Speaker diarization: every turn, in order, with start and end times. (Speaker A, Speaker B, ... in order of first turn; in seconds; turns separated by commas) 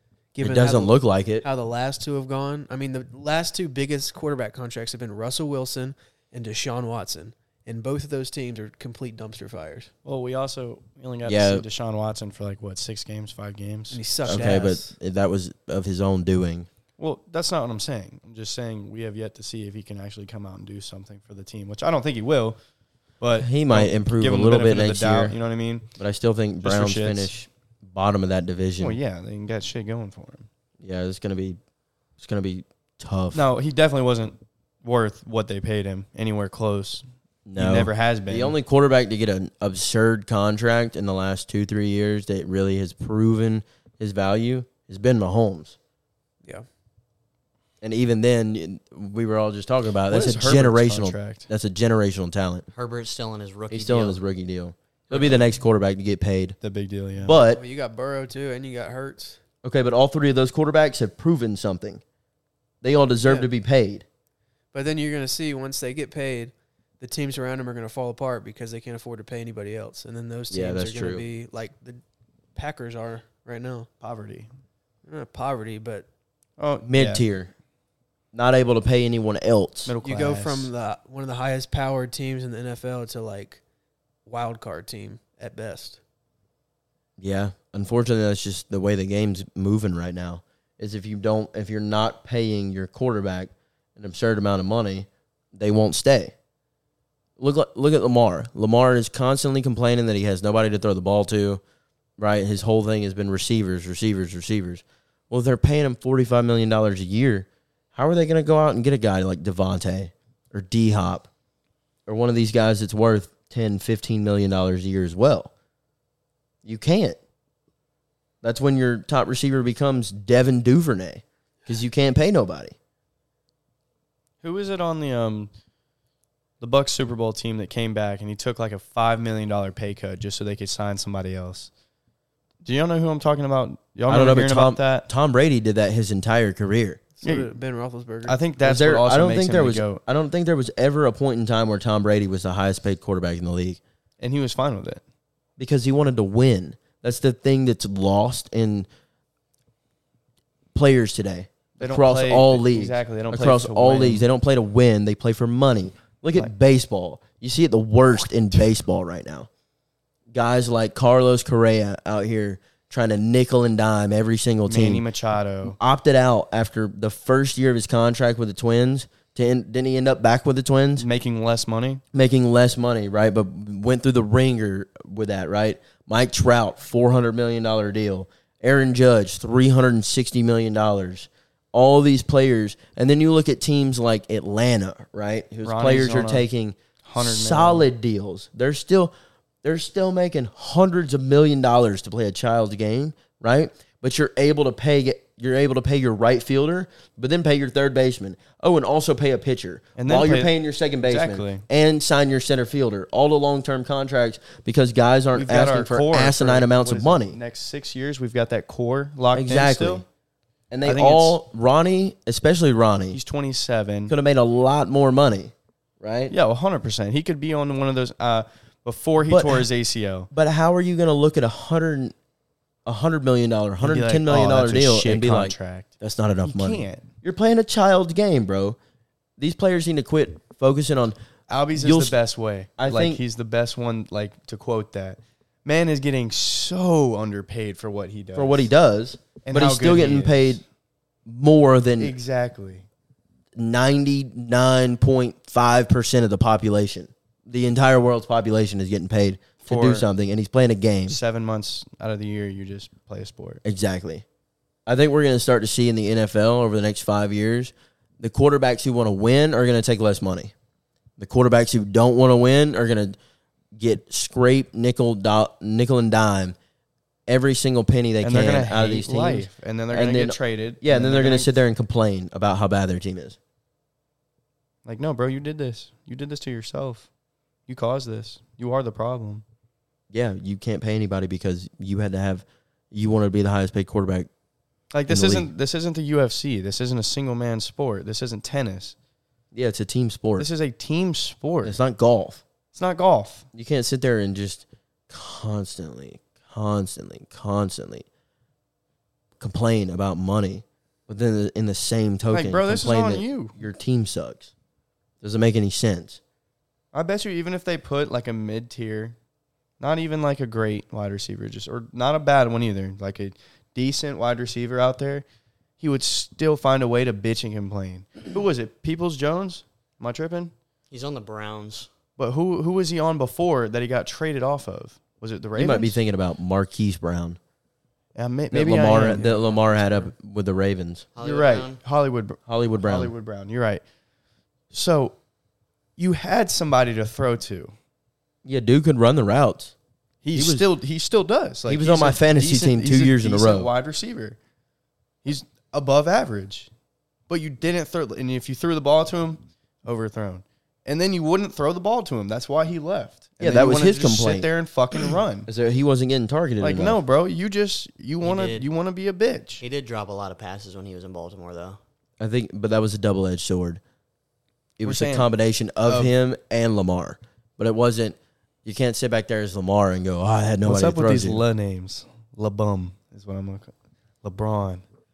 Speaker A: 0.3-9.9, Speaker B: 0.4-1.4, Speaker C: 10.0-14.0, Speaker B: 11.2-11.6, Speaker A: 13.9-14.9, Speaker B: 14.2-16.7, Speaker C: 17.0-22.6, Speaker C: 23.2-25.9, Speaker B: 23.4-25.4, Speaker B: 26.0-29.0, Speaker C: 26.6-27.3, Speaker C: 28.8-30.5, Speaker B: 30.8-31.6, Speaker B: 32.2-33.4, Speaker C: 33.3-38.5, Speaker B: 37.5-45.8, Speaker B: 47.8-52.6, Speaker C: 50.1-51.5, Speaker D: 52.7-54.2, Speaker B: 53.7-56.5, Speaker C: 56.6-57.4, Speaker B: 57.2-57.6, Speaker A: 57.3-59.4, Speaker B: 59.6-62.0, Speaker B: 62.8-64.0, Speaker A: 63.2-63.5, Speaker A: 64.7-72.0, Speaker B: 70.5-71.2, Speaker A: 72.5-73.9, Speaker C: 74.0-74.5, Speaker A: 75.0-76.0, Speaker C: 76.6-77.3, Speaker B: 76.9-77.5, Speaker B: 78.3-79.9, Speaker C: 79.8-80.7, Speaker A: 80.0-83.6, Speaker A: 84.2-86.0, Speaker B: 87.2-96.3, Speaker B: 97.4-101.6, Speaker B: 102.2-111.3, Speaker B: 112.0-115.5, Speaker B: 116.6-117.2, Speaker B: 118.4-122.8, Speaker C: 124.4-125.5, Speaker C: 126.6-131.7, Speaker C: 132.6-135.1, Speaker B: 134.1-137.0, Speaker A: 137.2-138.4, Speaker C: 137.2-137.5, Speaker C: 138.2-140.0, Speaker B: 138.6-143.8, Speaker C: 144.2-145.0, Speaker B: 145.6-148.9, Speaker B: 150.7-159.5, Speaker C: 151.8-154.2, Speaker B: 160.3-165.0, Speaker C: 164.7-165.8, Speaker B: 165.8-171.1, Speaker C: 171.0-172.0, Speaker B: 172.1-207.4, Speaker C: 185.6-186.5, Speaker C: 187.0-187.9, Speaker C: 199.9-200.5, Speaker C: 201.1-201.6, Speaker C: 205.3-210.0, Speaker B: 209.3-210.0, Speaker B: 210.7-213.2, Speaker C: 210.8-211.4, Speaker C: 213.1-214.1, Speaker B: 214.1-216.3, Speaker C: 216.3-220.3, Speaker B: 219.3-219.7, Speaker B: 220.3-222.1, Speaker B: 222.8-228.8, Speaker C: 223.8-225.9, Speaker C: 226.4-227.1, Speaker B: 229.4-231.2, Speaker C: 231.5-238.7, Speaker B: 231.7-232.2, Speaker B: 232.8-233.2, Speaker B: 238.3-240.6, Speaker C: 239.4-240.6, Speaker B: 241.2-242.1, Speaker C: 242.0-242.8, Speaker B: 243.6-251.2, Speaker C: 249.6-250.1, Speaker C: 251.1-253.6, Speaker B: 253.6-254.2, Speaker B: 254.8-260.5, Speaker B: 261.2-263.2, Speaker B: 263.7-266.6, Speaker B: 267.3-273.4, Speaker C: 268.2-271.5, Speaker C: 274.8-277.1, Speaker C: 277.7-279.4, Speaker B: 280.1-284.3, Speaker C: 284.9-288.9, Speaker B: 285.1-285.5, Speaker B: 289.5-290.5, Speaker C: 290.4-291.8, Speaker B: 291.6-292.4, Speaker C: 292.7-293.4, Speaker B: 293.5-298.1, Speaker B: 299.4-304.5, Speaker C: 302.3-303.6, Speaker B: 305.2-306.2, Speaker C: 306.9-309.1, Speaker C: 309.8-315.2, Speaker C: 315.8-320.5, Speaker D: 320.9-321.9, Speaker C: 322.2-326.0, Speaker B: 325.6-327.4, Speaker C: 328.1-329.3, Speaker B: 328.5-331.1, Speaker A: 329.1-330.0, Speaker D: 331.1-331.8, Speaker C: 331.2-333.8, Speaker B: 332.4-333.1, Speaker C: 334.7-335.2, Speaker C: 336.0-337.7, Speaker B: 338.4-339.7, Speaker C: 340.2-344.4, Speaker B: 340.3-340.6, Speaker B: 341.7-343.7, Speaker C: 345.2-346.7, Speaker C: 347.3-355.5, Speaker B: 353.4-354.5, Speaker B: 355.5-357.0, Speaker C: 356.6-359.6, Speaker D: 358.2-358.7, Speaker D: 359.6-361.8, Speaker B: 362.2-363.8, Speaker B: 364.8-371.4, Speaker C: 364.8-365.3, Speaker C: 365.8-366.1, Speaker C: 370.6-374.8